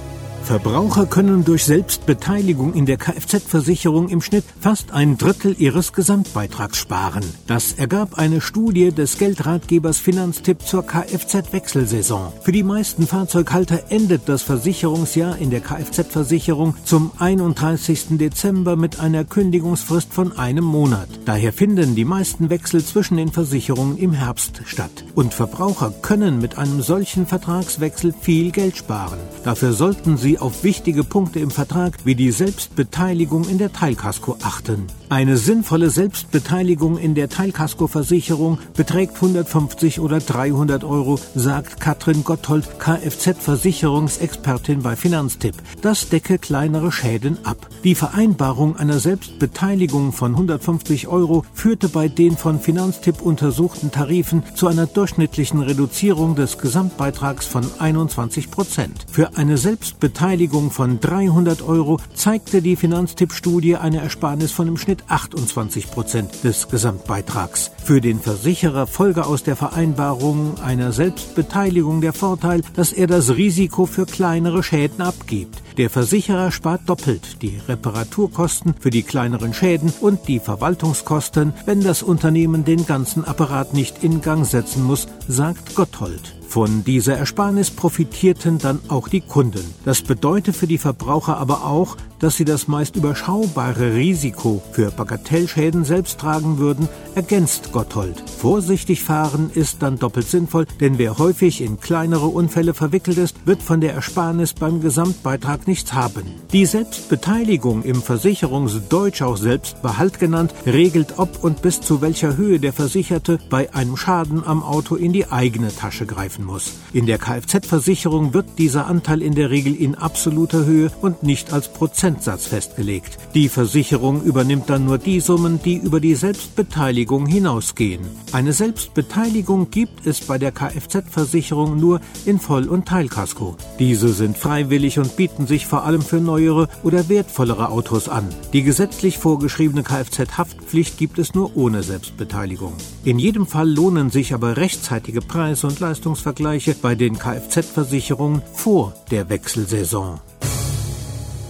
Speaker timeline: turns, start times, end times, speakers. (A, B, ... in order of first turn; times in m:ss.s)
0:00.4-2:30.2 A